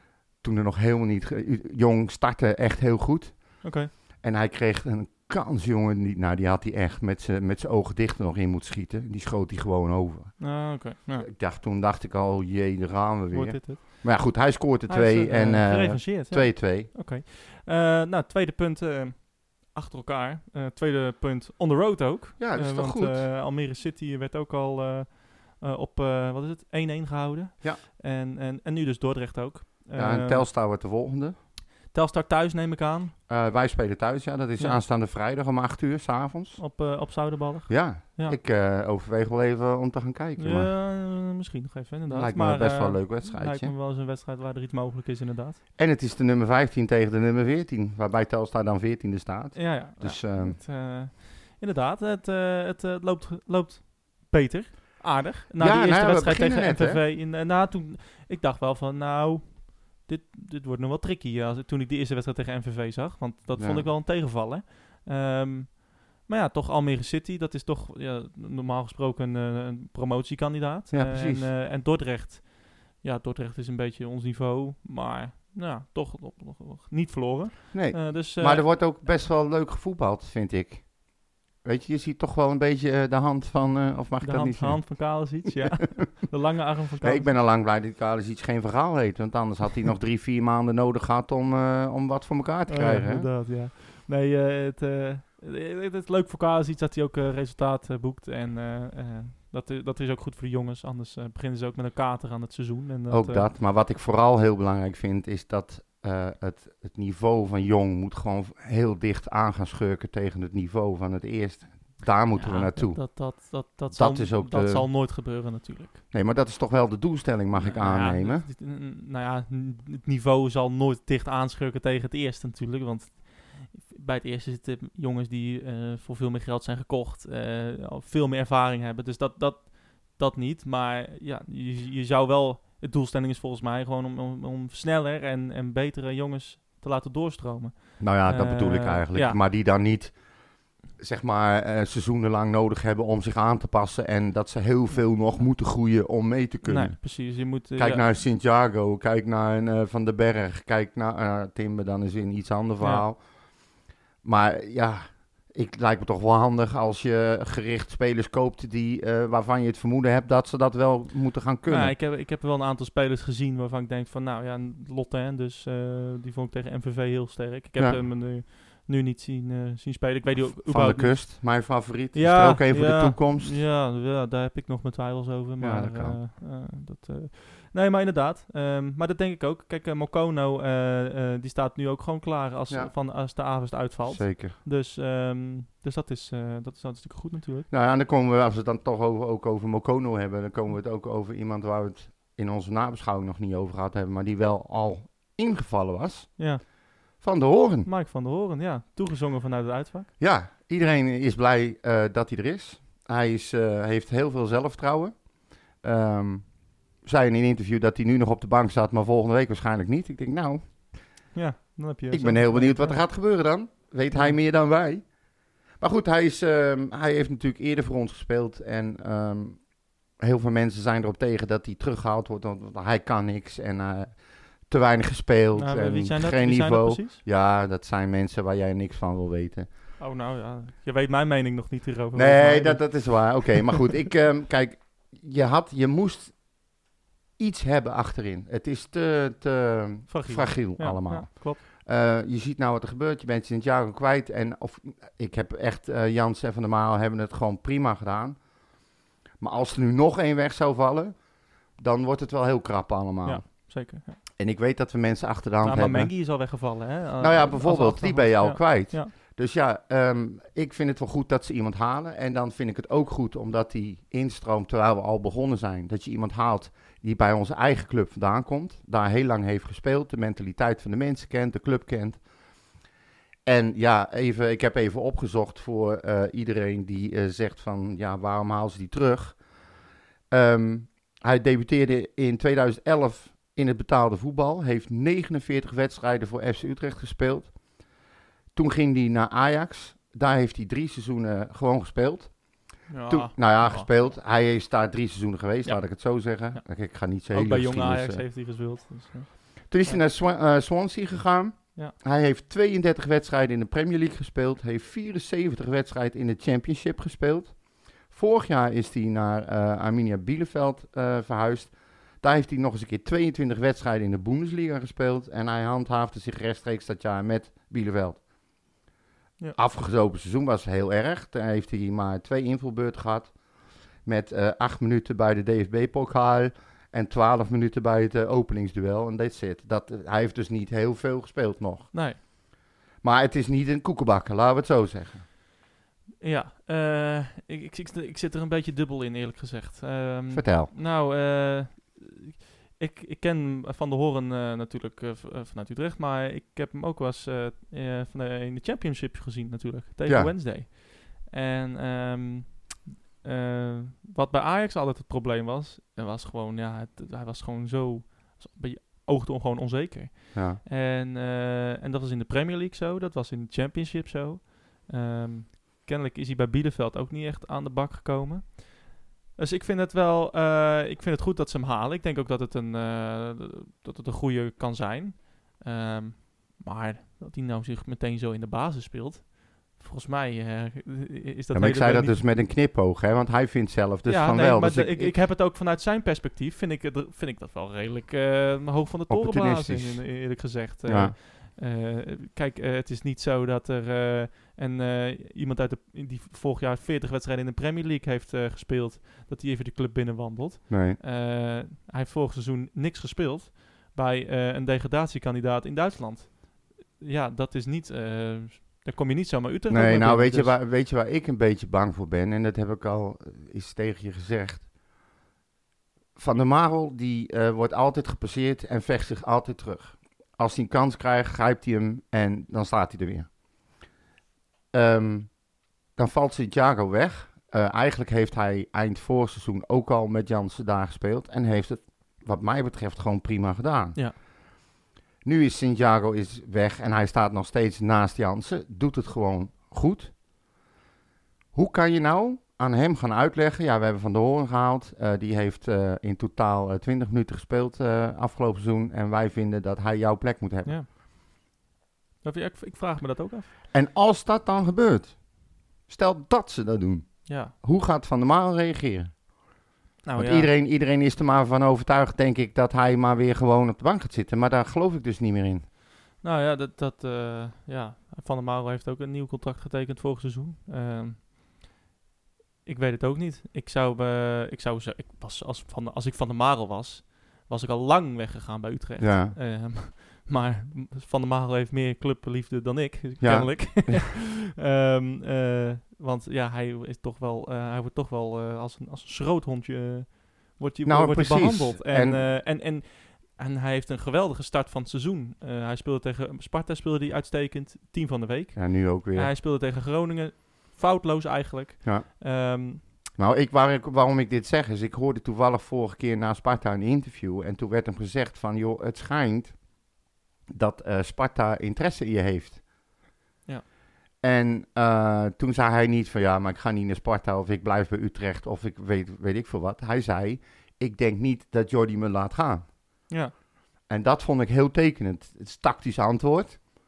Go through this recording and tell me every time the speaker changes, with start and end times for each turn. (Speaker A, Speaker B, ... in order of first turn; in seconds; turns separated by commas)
Speaker A: 0.4-16.9, Speaker B: 3.6-3.9, Speaker B: 10.4-11.3, Speaker B: 13.3-14.1, Speaker B: 14.9-30.5, Speaker A: 22.4-23.3, Speaker A: 30.0-31.4, Speaker B: 31.9-33.1, Speaker A: 33.3-36.6, Speaker B: 36.6-38.4, Speaker A: 37.7-40.7, Speaker B: 40.4-45.6, Speaker A: 42.1-43.8, Speaker A: 45.8-50.6, Speaker B: 49.5-78.9, Speaker A: 55.6-57.0, Speaker A: 63.5-63.9, Speaker A: 70.9-71.5, Speaker A: 77.7-81.0, Speaker A: 81.6-85.8, Speaker B: 84.2-87.3, Speaker A: 87.0-93.3, Speaker B: 92.7-103.5, Speaker A: 103.1-114.9, Speaker B: 112.4-116.0, Speaker A: 116.1-118.5, Speaker B: 117.5-139.4, Speaker A: 138.0-140.2, Speaker A: 141.0-153.3, Speaker B: 146.6-148.1, Speaker B: 152.8-153.1, Speaker A: 154.2-162.0, Speaker B: 161.7-187.7, Speaker A: 170.3-173.6, Speaker A: 175.6-176.2, Speaker A: 184.1-184.6, Speaker A: 187.7-196.4, Speaker B: 196.4-196.6, Speaker A: 197.2-197.9, Speaker B: 197.8-200.1, Speaker A: 200.2-205.2, Speaker A: 205.8-210.6, Speaker B: 211.3-213.0, Speaker A: 212.1-215.0, Speaker A: 215.8-219.7, Speaker A: 220.2-229.7, Speaker B: 225.6-227.2, Speaker B: 230.0-233.4, Speaker A: 232.2-236.4, Speaker A: 237.4-248.4, Speaker B: 240.1-241.6, Speaker A: 249.4-251.2, Speaker A: 251.8-253.7, Speaker B: 253.2-254.2, Speaker A: 254.4-256.1, Speaker B: 255.6-259.1, Speaker A: 257.2-272.2, Speaker A: 273.5-279.4, Speaker A: 280.3-287.5, Speaker A: 288.6-292.4, Speaker B: 292.9-293.9, Speaker A: 293.1-298.2, Speaker B: 295.6-296.6, Speaker B: 297.3-300.0, Speaker A: 299.7-307.6, Speaker A: 308.1-318.2, Speaker A: 319.6-323.3, Speaker A: 324.1-331.9, Speaker B: 331.9-332.2, Speaker A: 333.0-335.3, Speaker B: 336.2-382.3, Speaker A: 340.3-340.7, Speaker A: 350.1-350.3, Speaker A: 360.3-360.6, Speaker A: 381.5-385.2, Speaker B: 384.1-410.6, Speaker A: 389.1-391.1, Speaker A: 400.7-401.0, Speaker A: 409.7-414.7, Speaker A: 416.2-423.3, Speaker A: 424.7-425.3, Speaker A: 426.0-434.0, Speaker A: 435.2-440.1, Speaker A: 441.5-450.8, Speaker B: 452.2-453.5, Speaker A: 453.7-455.2, Speaker A: 455.9-459.1, Speaker B: 457.3-457.5, Speaker B: 460.0-460.5, Speaker A: 460.2-465.6, Speaker B: 466.2-471.3, Speaker B: 472.6-502.8, Speaker A: 479.0-479.4, Speaker A: 483.2-484.1, Speaker A: 490.9-492.3, Speaker A: 498.6-499.3, Speaker A: 503.2-509.6, Speaker A: 510.5-512.6, Speaker A: 514.2-522.7, Speaker A: 523.9-526.6